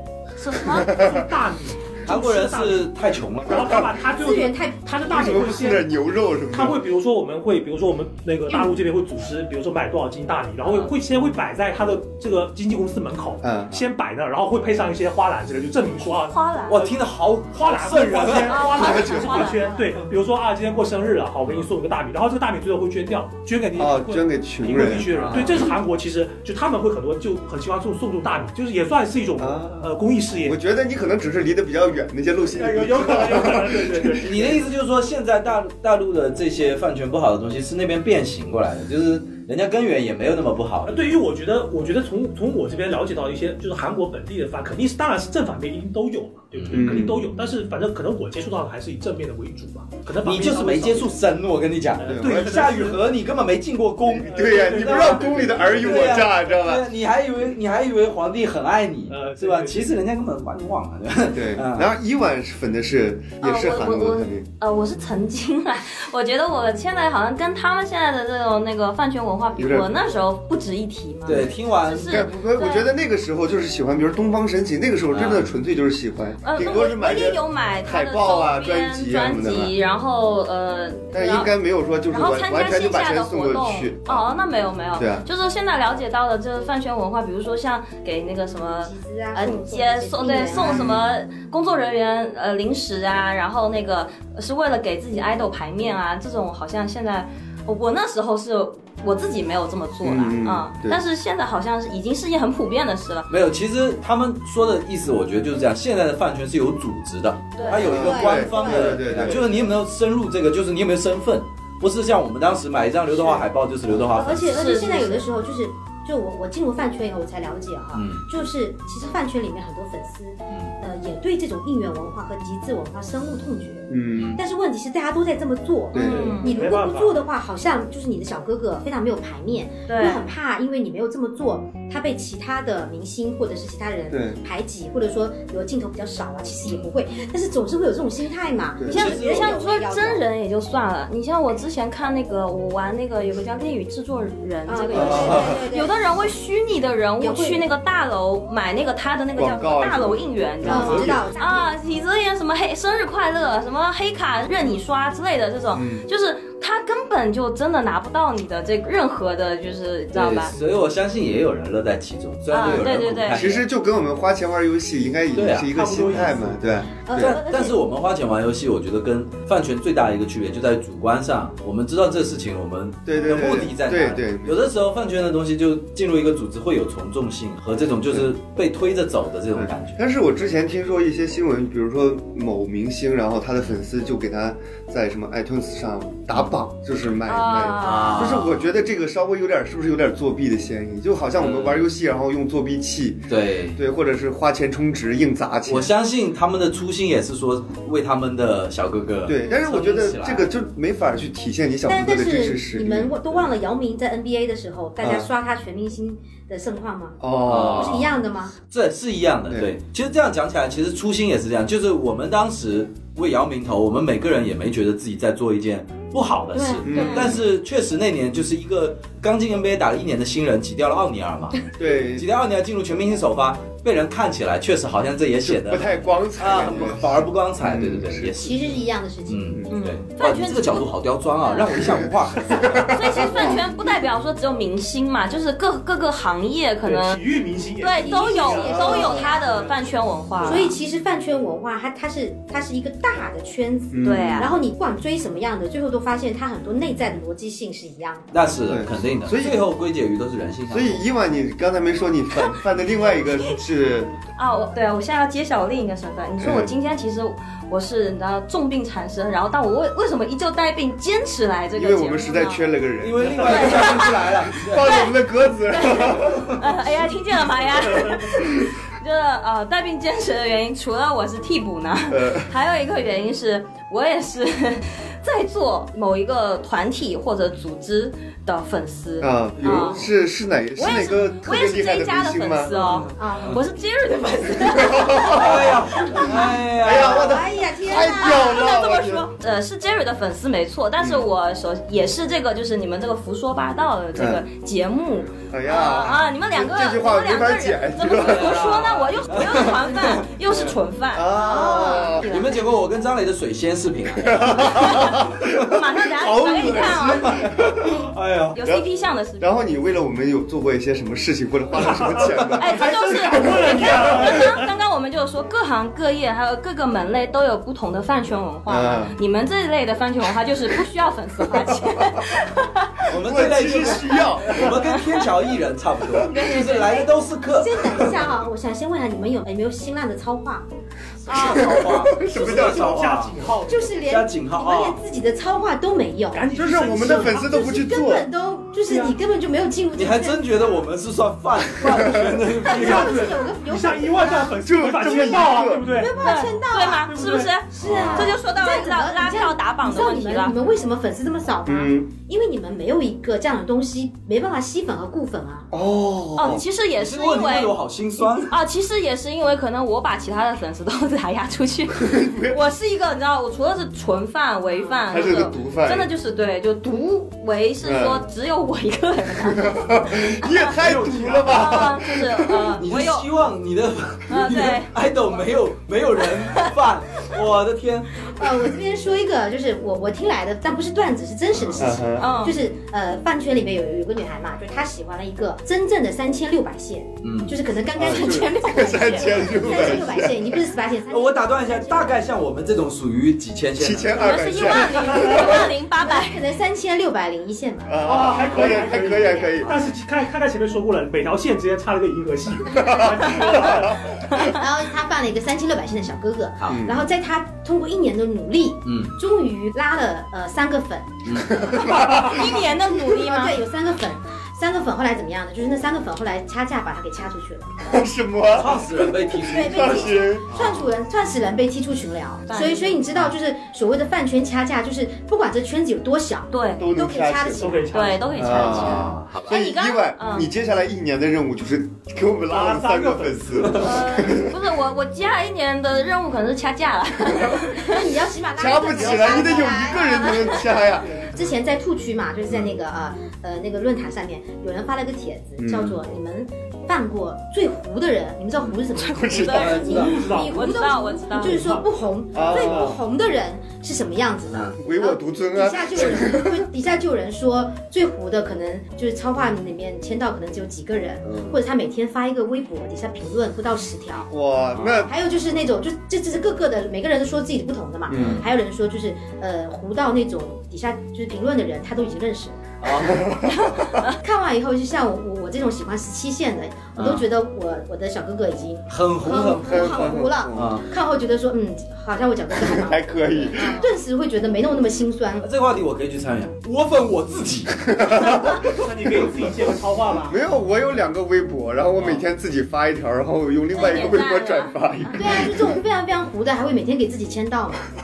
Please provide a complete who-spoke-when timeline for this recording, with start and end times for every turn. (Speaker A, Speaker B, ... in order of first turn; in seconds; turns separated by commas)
Speaker A: 0.4-0.9, Speaker B: 0.7-1.2, Speaker C: 0.7-2.9, Speaker D: 2.0-3.9, Speaker C: 3.5-5.9, Speaker E: 4.2-5.6, Speaker B: 5.1-6.8, Speaker C: 6.5-16.9, Speaker D: 10.6-10.9, Speaker B: 13.4-13.8, Speaker A: 16.1-16.8, Speaker D: 16.7-18.9, Speaker C: 17.5-30.6, Speaker A: 18.4-19.9, Speaker B: 18.8-19.4, Speaker B: 23.8-25.6, Speaker D: 24.8-25.7, Speaker B: 29.4-29.9, Speaker B: 30.4-34.3, Speaker C: 32.5-34.6, Speaker D: 34.2-41.1, Speaker C: 40.9-51.2, Speaker D: 46.5-47.1, Speaker B: 46.7-47.2, Speaker D: 50.2-61.9, Speaker C: 52.0-53.0, Speaker B: 52.0-52.7, Speaker B: 54.1-56.9, Speaker C: 54.2-56.3, Speaker C: 59.1-59.9, Speaker B: 61.3-64.5, Speaker A: 63.4-72.9, Speaker B: 69.6-69.9, Speaker D: 71.3-72.2, Speaker B: 72.0-79.7, Speaker D: 75.1-75.5, Speaker A: 76.4-81.5, Speaker B: 81.1-84.2, Speaker A: 82.1-103.3, Speaker B: 85.0-85.2, Speaker E: 88.8-91.0, Speaker B: 90.6-91.0, Speaker B: 100.0-101.0, Speaker D: 103.3-114.6, Speaker A: 107.6-108.0, Speaker E: 107.7-109.2, Speaker B: 107.8-109.6, Speaker E: 114.1-140.2, Speaker A: 114.4-115.3, Speaker D: 117.9-118.2, Speaker B: 123.9-124.4, Speaker D: 124.1-124.4, Speaker B: 125.9-126.4, Speaker C: 125.9-127.2, Speaker A: 126.0-126.7, Speaker A: 129.9-130.3, Speaker B: 134.1-134.4, Speaker B: 138.8-139.1, Speaker D: 138.9-139.6, Speaker A: 138.9-160.6, Speaker E: 144.7-146.0, Speaker B: 144.9-145.5, Speaker E: 147.2-147.7, Speaker B: 149.4-151.2, Speaker E: 150.6-151.7, Speaker B: 155.7-156.1, Speaker D: 160.1-163.6, Speaker A: 162.5-163.5, Speaker B: 163.3-167.4, Speaker D: 165.3-166.3, Speaker C: 165.7-166.8, Speaker E: 167.1-167.8, Speaker D: 167.2-180.0, Speaker B: 173.1-174.6, Speaker B: 179.5-195.9, Speaker A: 187.3-188.4, Speaker D: 187.8-188.7, Speaker D: 191.4-191.9, Speaker D: 193.3-193.8, Speaker D: 195.7-200.5, Speaker B: 199.3-203.2, Speaker E: 201.9-208.5, Speaker B: 205.0-205.3, Speaker B: 207.2-208.1, Speaker D: 207.5-208.1, Speaker D: 208.7-232.9, Speaker B: 209.5-209.7, Speaker E: 216.5-217.2, Speaker B: 216.8-217.4, Speaker A: 216.9-217.4, Speaker B: 221.8-222.3, Speaker B: 225.4-228.3, Speaker E: 228.4-229.6, Speaker A: 229.7-230.9, Speaker A: 231.5-231.8, Speaker B: 232.0-233.6, Speaker A: 232.7-237.2, Speaker C: 236.8-239.9, Speaker A: 237.8-240.8, Speaker E: 237.9-239.8, Speaker E: 240.4-248.3, Speaker B: 243.9-244.5, Speaker A: 244.0-244.6, Speaker D: 248.3-251.1, Speaker B: 248.7-249.6, Speaker B: 250.7-254.1, Speaker A: 254.4-262.7, Speaker B: 256.4-256.8, Speaker B: 261.8-266.5, Speaker D: 263.0-265.1, Speaker A: 263.4-264.3, Speaker A: 264.8-265.1, Speaker A: 265.7-280.1, Speaker D: 266.1-266.6, Speaker B: 272.1-272.5, Speaker B: 279.2-282.8, Speaker D: 279.6-280.0, Speaker A: 280.8-286.4, Speaker E: 283.2-283.6, Speaker B: 284.7-286.2, Speaker D: 285.1-287.4, Speaker B: 286.8-289.3, Speaker E: 286.8-288.5, Speaker A: 287.9-302.6, Speaker B: 294.2-294.4, Speaker B: 295.5-298.8, Speaker D: 298.1-300.8, Speaker B: 301.1-302.3, Speaker D: 301.5-305.2, Speaker B: 304.2-307.9, Speaker A: 304.7-307.4, Speaker D: 307.0-308.6, Speaker A: 308.5-309.5, Speaker B: 309.4-314.3, Speaker C: 311.8-314.7, Speaker A: 312.6-323.1, Speaker B: 318.7-319.2, Speaker D: 323.1-328.3, Speaker B: 323.1-324.8, Speaker A: 324.7-325.2, Speaker E: 326.2-330.7, Speaker A: 326.3-326.9, Speaker D: 331.2-333.4, Speaker A: 331.3-331.6, Speaker B: 331.3-333.1, Speaker C: 332.3-333.9, Speaker E: 333.7-340.9, Speaker D: 334.0-335.0, Speaker C: 336.3-337.6, Speaker B: 336.5-338.3, Speaker C: 338.9-339.2, Speaker D: 339.9-343.3, Speaker B: 341.8-342.4, Speaker E: 342.6-347.2, Speaker C: 342.7-346.1, Speaker B: 344.6-345.9, Speaker A: 346.2-350.6, Speaker C: 347.1-347.5, Speaker E: 347.8-355.7, Speaker D: 347.8-348.3, Speaker B: 351.6-352.1, Speaker B: 355.7-356.6, Speaker A: 356.4-370.7, Speaker D: 357.0-358.5, Speaker B: 362.0-362.6, Speaker B: 365.1-366.1, Speaker B: 367.8-368.2, Speaker B: 369.4-372.7, Speaker C: 370.8-371.9, Speaker A: 371.4-373.3, Speaker D: 372.8-378.3, Speaker A: 374.3-374.9, Speaker A: 376.4-376.7, Speaker E: 378.3-392.2, Speaker D: 381.6-381.9, Speaker B: 381.8-382.4, Speaker A: 382.2-382.6, Speaker D: 387.2-387.5, Speaker B: 388.0-390.6, Speaker A: 388.1-389.2, Speaker D: 391.1-394.5, Speaker B: 393.8-395.6, Speaker E: 394.1-399.7, Speaker A: 394.3-396.5, Speaker B: 397.9-399.7, Speaker C: 398.0-404.1, Speaker B: 402.7-403.9, Speaker A: 404.1-404.6, Speaker E: 404.3-411.2, Speaker D: 406.6-406.9, Speaker B: 406.7-407.0, Speaker D: 408.9-409.1, Speaker D: 411.2-411.7, Speaker B: 411.4-412.5, Speaker A: 411.8-413.6, Speaker E: 412.0-417.9, Speaker B: 417.8-420.6, Speaker D: 418.5-420.9, Speaker E: 419.4-427.9, Speaker A: 422.5-423.0, Speaker A: 426.5-426.9, Speaker B: 426.8-427.7, Speaker C: 427.5-428.7, Speaker A: 427.9-430.5, Speaker B: 428.4-434.6, Speaker D: 428.5-429.5, Speaker C: 432.5-433.7, Speaker A: 433.8-438.1, Speaker E: 437.7-464.3, Speaker B: 438.6-441.2, Speaker A: 440.0-440.6, Speaker B: 445.6-446.0, Speaker A: 449.0-451.7, Speaker B: 449.1-449.9, Speaker D: 449.4-450.2, Speaker C: 450.0-450.8, Speaker C: 451.4-451.9, Speaker B: 452.3-453.0, Speaker C: 452.5-452.9, Speaker B: 454.8-456.7, Speaker B: 461.2-461.6, Speaker B: 464.3-465.1, Speaker D: 464.7-465.1, Speaker E: 465.1-472.6, Speaker B: 468.1-468.5, Speaker D: 468.1-468.4, Speaker D: 472.8-473.3, Speaker B: 473.0-473.9, Speaker A: 473.6-474.2, Speaker E: 474.1-485.5, Speaker D: 477.0-477.3, Speaker D: 478.9-480.9, Speaker B: 479.6-480.8, Speaker B: 482.6-483.6, Speaker A: 483.5-483.9, Speaker D: 485.4-487.8, Speaker B: 487.8-488.7, Speaker C: 488.7-490.4, Speaker B: 490.2-495.8, Speaker D: 492.0-492.2, Speaker A: 493.7-495.2, Speaker E: 495.1-497.8